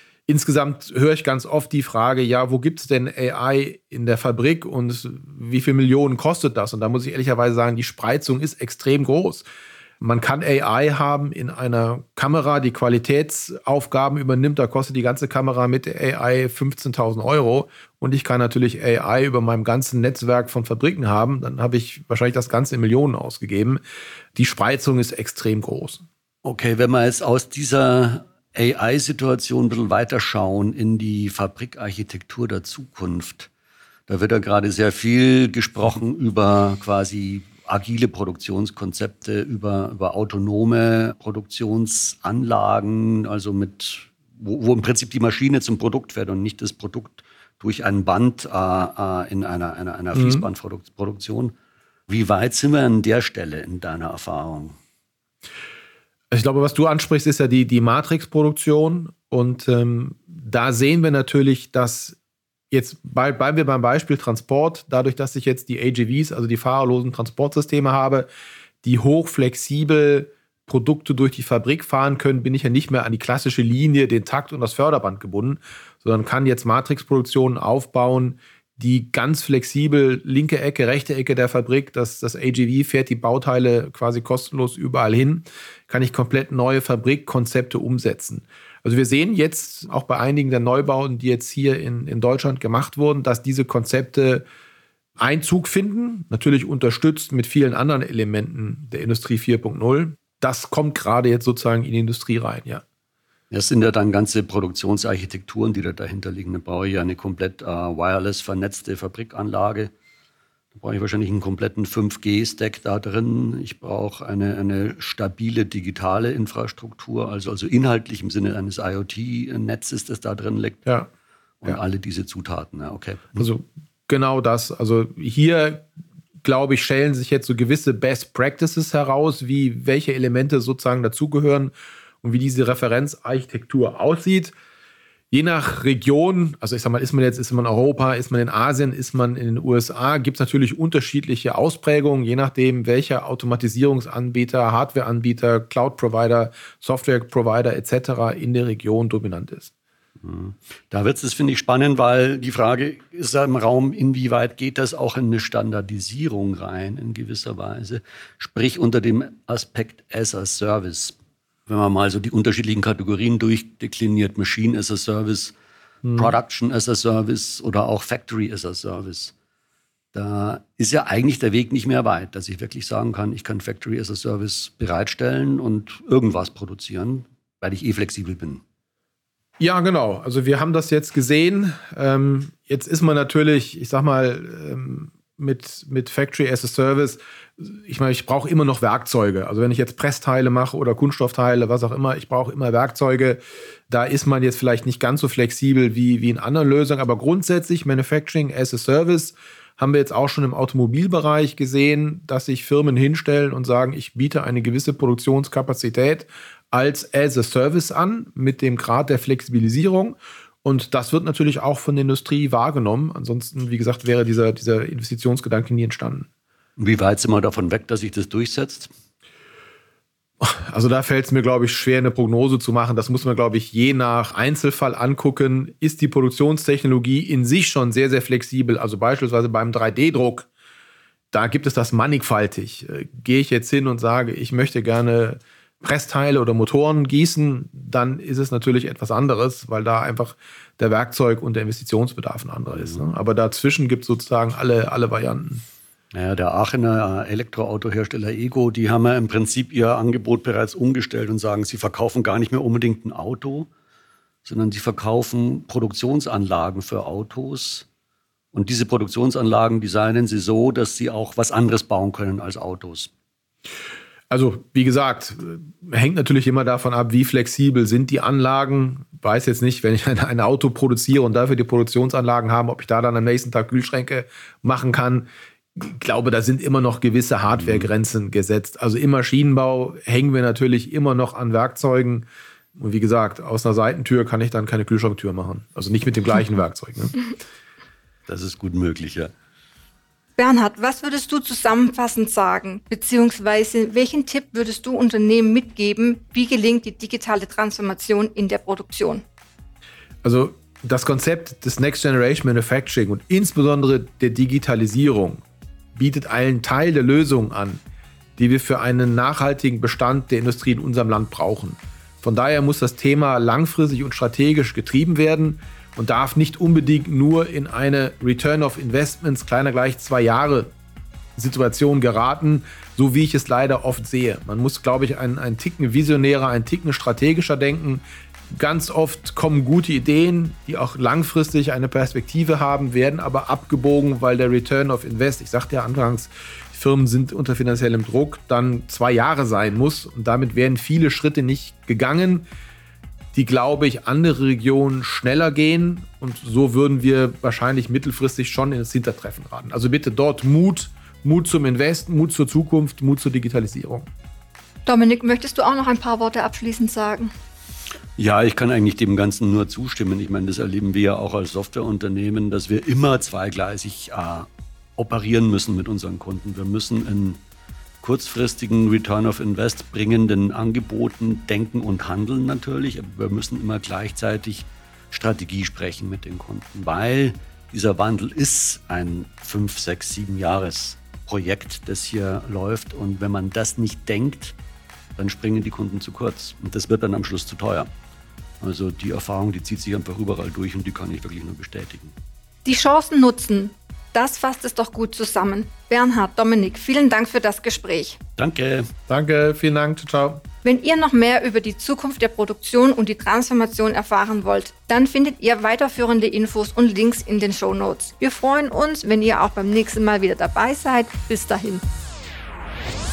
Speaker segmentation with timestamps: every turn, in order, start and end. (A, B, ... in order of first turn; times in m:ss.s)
0:00.3-0:09.4 A
0:10.0-0:23.8 A
0:24.3-0:26.0 A
0:26.4-0:33.5 B
0:34.1-0:51.5 B
0:50.1-0:50.4 A
0:52.1-0:54.8 B
0:56.3-1:02.2 A
1:02.7-1:08.3 A
1:08.8-1:34.4 A
1:35.2-1:42.8 A
1:43.5-1:49.9 B
1:50.7-2:00.8 B
2:01.6-2:03.4 B
2:03.4-2:05.9 A
2:06.4-2:14.5 A
2:15.3-2:29.7 A
2:30.2-2:41.2 B
2:41.7-2:45.5 B
2:46.0-2:46.4 A
2:46.1-2:49.3 B
2:50.1-2:58.6 B
2:59.6-3:36.3 A
3:36.8-3:38.9 B
3:40.4-3:50.5 A
3:51.3-4:05.6 A
4:02.7-4:03.0 B
4:06.1-4:13.7 B
4:14.4-4:17.8 B
4:18.5-4:23.1 B
4:24.3-4:47.3 A
4:37.6-4:37.9 B
4:48.3-4:49.3 B
4:50.4-4:59.2 C
5:00.2-5:05.4 A
5:05.9-5:07.8 A
5:08.4-5:20.7 A
5:21.4-5:42.4 A
5:43.3-5:54.1 A
5:54.8-5:57.3 C
5:58.2-6:07.4 B
6:08.0-6:24.6 B
6:25.2-6:27.9 B
6:28.6-6:32.1 B
6:32.6-6:38.2 C
6:38.4-6:38.9 B
6:39.1-6:40.4 A
6:40.6-6:51.8 C